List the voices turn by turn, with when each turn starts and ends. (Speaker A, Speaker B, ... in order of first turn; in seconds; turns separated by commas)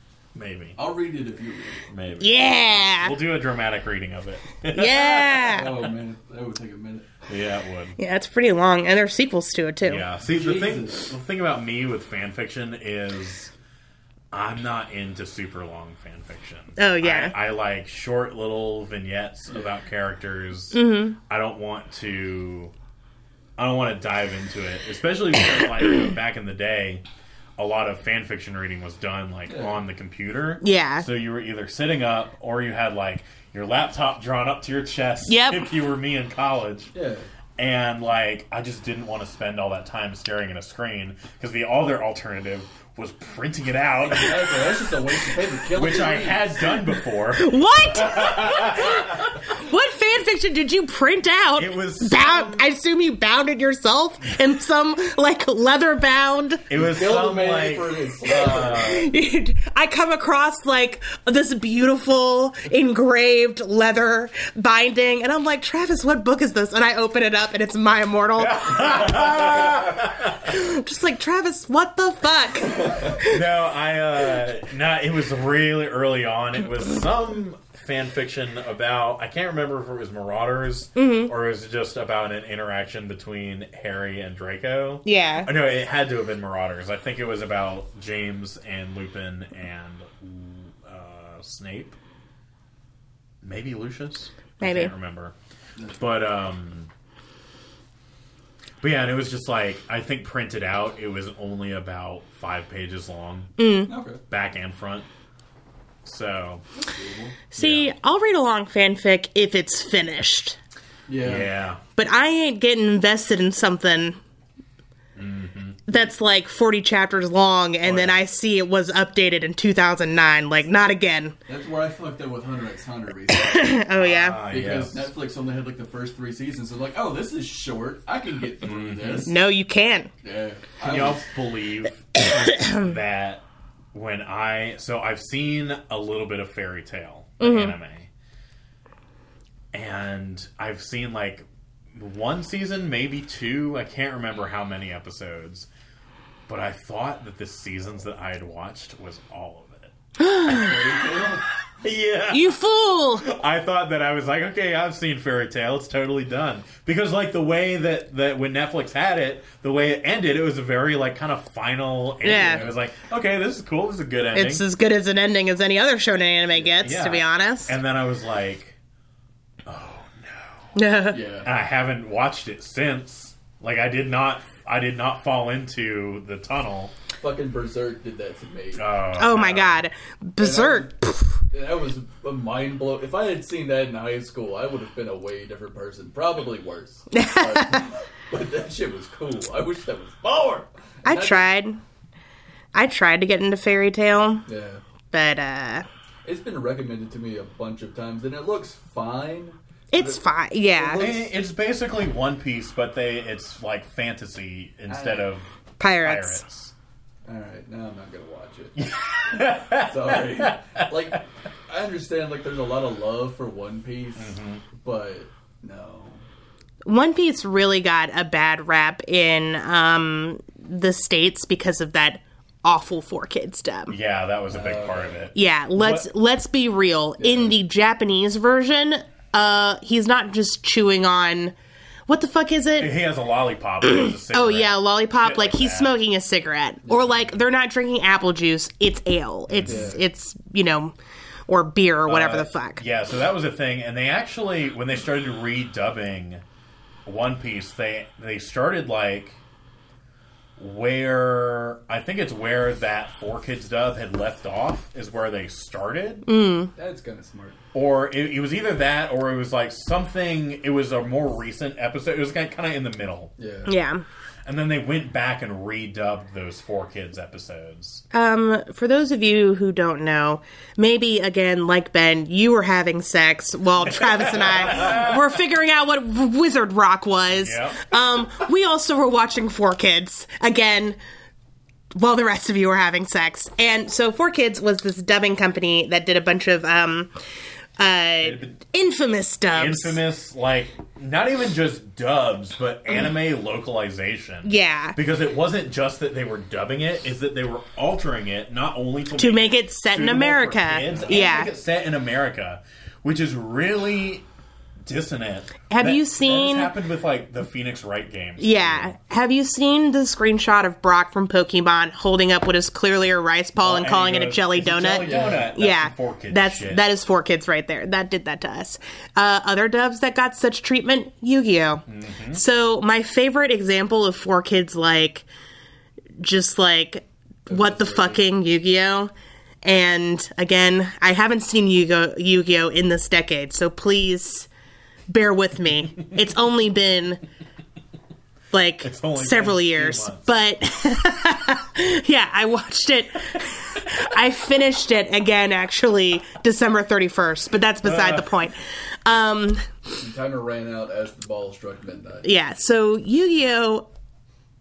Speaker A: 0.3-0.8, Speaker B: 0.8-1.9, Speaker A: 1.9-5.9, Speaker C: 2.2-3.2, Speaker C: 4.7-5.7, Speaker B: 5.5-7.2, Speaker A: 7.3-8.0, Speaker C: 8.0-10.0, Speaker A: 9.8-13.5, Speaker B: 10.2-11.1, Speaker A: 14.3-22.7, Speaker C: 16.8-17.4, Speaker C: 20.7-21.2, Speaker A: 23.6-27.0, Speaker A: 27.6-36.9, Speaker B: 29.5-29.8, Speaker C: 30.6-31.1, Speaker C: 35.3-35.7, Speaker B: 36.9-37.3, Speaker A: 37.6-44.9, Speaker B: 44.1-46.6, Speaker A: 45.7-49.3, Speaker C: 47.3-56.6, Speaker A: 51.6-52.6, Speaker A: 56.7-59.1, Speaker B: 56.7-59.0, Speaker C: 58.7-69.8, Speaker A: 68.4-70.5, Speaker C: 70.4-73.4, Speaker A: 73.2-92.0, Speaker C: 81.0-81.3, Speaker C: 85.0-85.5, Speaker A: 93.4-95.3, Speaker C: 94.6-94.9, Speaker A: 95.9-96.9, Speaker A: 98.8-103.5, Speaker C: 103.6-103.9, Speaker B: 103.9-104.2, Speaker A: 104.3-105.1, Speaker A: 106.0-106.6, Speaker B: 106.8-107.4, Speaker C: 107.5-110.6, Speaker A: 107.6-107.9, Speaker B: 111.1-111.5, Speaker A: 111.2-111.8, Speaker C: 112.0-114.2, Speaker A: 115.2-115.8, Speaker C: 115.9-121.3, Speaker A: 117.8-118.2, Speaker B: 121.5-123.8, Speaker C: 123.3-124.4, Speaker A: 123.9-125.1, Speaker B: 124.5-129.3, Speaker A: 128.6-129.3, Speaker C: 129.2-130.1, Speaker B: 130.2-131.3, Speaker A: 130.8-138.1, Speaker C: 132.2-132.9, Speaker C: 137.4-137.8, Speaker A: 139.7-145.7, Speaker A: 146.5-149.9, Speaker C: 150.2-150.7, Speaker B: 150.5-151.4, Speaker A: 151.8-152.5, Speaker C: 152.3-153.3, Speaker A: 153.2-164.7, Speaker C: 162.2-162.6, Speaker B: 162.3-162.7, Speaker C: 164.3-167.8, Speaker A: 166.8-168.8, Speaker A: 169.7-170.7, Speaker C: 170.8-171.2, Speaker B: 171.1-171.5, Speaker A: 171.4-176.9, Speaker B: 177.2-178.9, Speaker A: 178.8-179.8, Speaker C: 179.2-181.4, Speaker B: 180.4-180.9, Speaker B: 181.5-191.5, Speaker C: 187.1-187.9, Speaker C: 191.1-191.8, Speaker C: 192.7-194.5, Speaker B: 194.5-194.8, Speaker C: 195.1-195.9, Speaker B: 196.2-201.3, Speaker C: 199.9-201.1, Speaker A: 201.0-205.5, Speaker B: 204.9-205.3, Speaker C: 205.8-206.4, Speaker A: 206.0-206.7, Speaker B: 207.2-208.8, Speaker A: 208.8-211.2, Speaker B: 209.7-216.2, Speaker A: 214.2-214.7, Speaker C: 216.8-223.9, Speaker A: 223.9-226.1, Speaker B: 224.5-225.2, Speaker C: 225.3-231.5, Speaker B: 227.2-227.6, Speaker C: 232.1-232.9, Speaker A: 232.8-235.9, Speaker C: 233.8-240.9, Speaker B: 236.9-237.1, Speaker A: 239.5-240.0, Speaker B: 239.7-240.0, Speaker C: 241.5-242.8, Speaker A: 242.1-246.4, Speaker A: 247.1-249.4, Speaker A: 250.6-256.3, Speaker C: 256.3-256.7, Speaker B: 256.8-257.6, Speaker A: 257.7-263.3, Speaker B: 263.4-263.7, Speaker C: 263.7-264.0, Speaker A: 264.4-268.0, Speaker C: 268.1-281.0, Speaker A: 273.8-275.2, Speaker A: 277.3-277.9, Speaker C: 281.9-287.1, Speaker C: 287.8-290.0, Speaker A: 288.2-288.5, Speaker A: 289.5-304.3, Speaker C: 294.4-295.0, Speaker C: 299.2-301.5, Speaker B: 300.9-301.4, Speaker A: 304.9-308.9, Speaker C: 305.7-306.7, Speaker C: 308.4-325.3, Speaker A: 313.6-316.8, Speaker B: 315.0-315.5, Speaker A: 321.9-322.4, Speaker C: 326.2-329.1, Speaker B: 327.5-328.2, Speaker C: 329.6-334.5, Speaker C: 335.1-337.2, Speaker C: 338.5-349.7, Speaker A: 338.8-340.3, Speaker A: 347.8-348.4, Speaker B: 350.0-352.3, Speaker C: 352.2-353.9